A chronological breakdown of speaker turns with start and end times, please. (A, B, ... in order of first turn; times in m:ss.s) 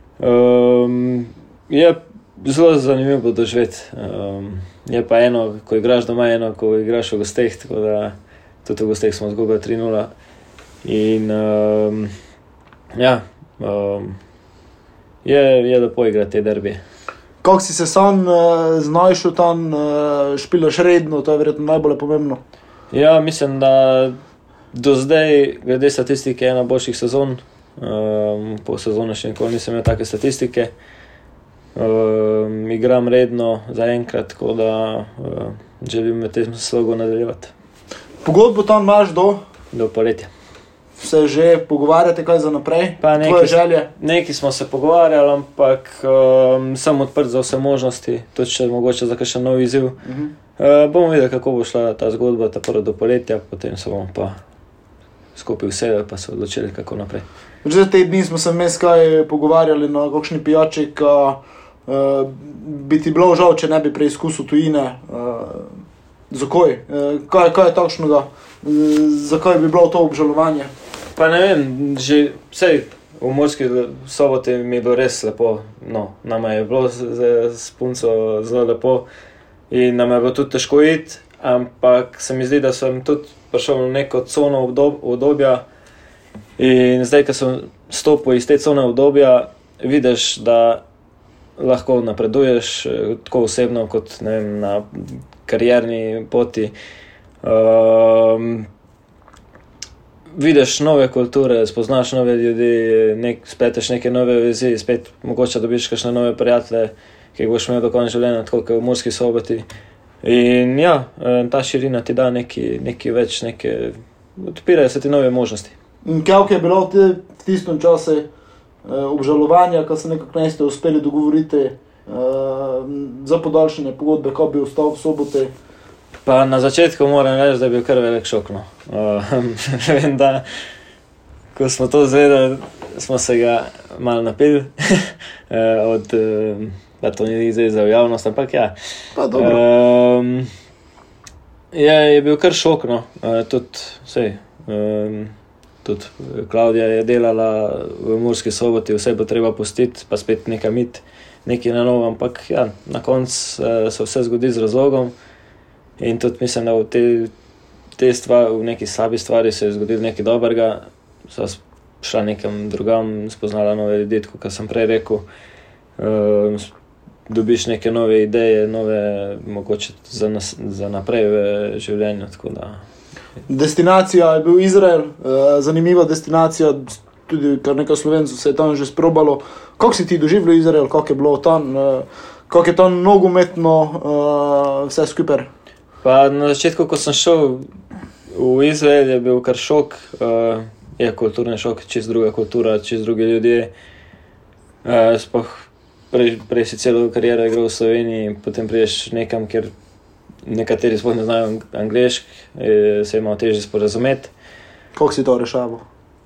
0:00.2-0:10.1 A
0:10.8-0:12.1 A
0:13.0-0:14.2 A
0:15.2-0:16.8 A
0:17.4-0:22.4 B
0:22.9-0:24.2 A
0:24.7-0:30.7 A
0:31.8-0:37.5 A
0:38.2-0:39.4 B
0:39.7-0:40.3 A
0:41.0-0:43.9 B
0:43.0-0:50.0 A
0:50.0-0:50.3 B
0:50.6-0:54.4 A
0:55.4-0:57.2 A
0:57.6-1:10.7 B
1:11.2-1:19.1 A
1:19.7-1:25.6 A
1:26.6-1:30.8 A
1:31.6-1:36.7 A
1:37.4-1:38.7 A
1:40.4-1:49.6 A
1:50.2-1:55.8 A
1:56.0-1:58.3 B
1:58.8-2:05.5 B
2:06.2-2:10.4 A
2:11.6-2:18.8 A
2:19.2-2:19.6 B
2:19.3-2:20.5 A
2:21.7-2:35.1 A
2:36.0-2:37.3 A
2:38.0-2:45.2 A
2:46.0-2:46.7 A
2:47.3-2:52.8 A
2:53.5-3:05.5 B
3:06.0-3:07.7 A
3:08.3-3:13.7 A
3:14.8-3:19.7 A
3:20.4-3:24.3 A
3:25.0-3:25.8 B